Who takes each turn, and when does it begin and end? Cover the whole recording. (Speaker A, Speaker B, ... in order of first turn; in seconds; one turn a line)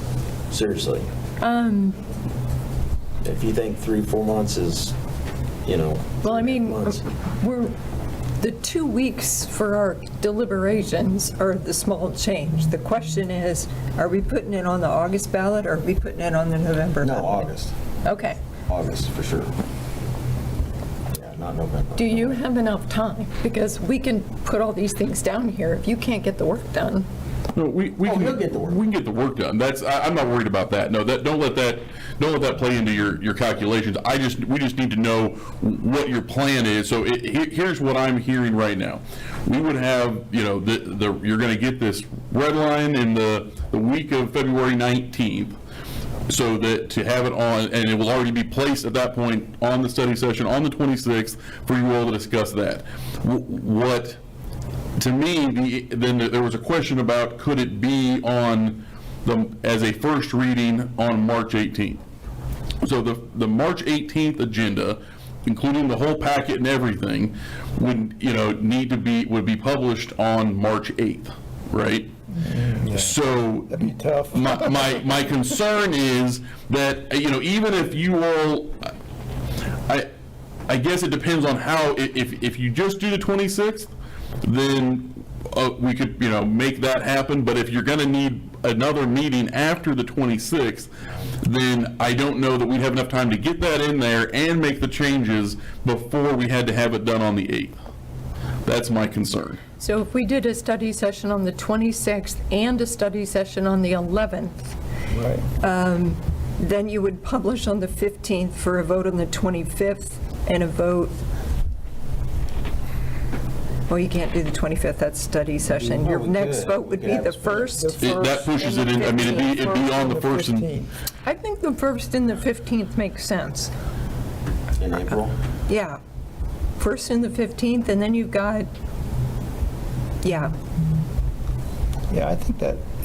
Speaker A: 0.5-1.1
Speaker B: 1.4-2.0
Speaker A: 3.2-5.0
Speaker A: 5.6-7.0
Speaker B: 6.2-7.7
Speaker B: 8.4-17.5
Speaker A: 17.0-17.7
Speaker B: 18.0-18.4
Speaker A: 18.7-19.5
Speaker A: 21.1-22.4
Speaker B: 21.9-27.1
Speaker C: 27.5-45.5
Speaker A: 28.0-28.8
Speaker C: 46.3-54.2
Speaker C: 55.0-62.0
Speaker C: 62.8-72.1
Speaker D: 72.4-75.0
Speaker C: 72.8-78.9
Speaker C: 80.7-83.9
Speaker C: 84.4-90.9
Speaker C: 91.4-97.8
Speaker C: 98.6-99.6
Speaker B: 99.8-104.7
Speaker D: 105.1-105.4
Speaker B: 105.6-111.2
Speaker B: 113.9-119.5
Speaker A: 115.7-117.8
Speaker D: 117.7-118.1
Speaker C: 118.0-120.8
Speaker D: 119.5-120.9
Speaker B: 121.2-123.7
Speaker A: 124.8-125.3
Speaker B: 125.7-126.0
Speaker B: 126.8-128.7
Speaker B: 130.2-130.5
Speaker D: 132.1-132.8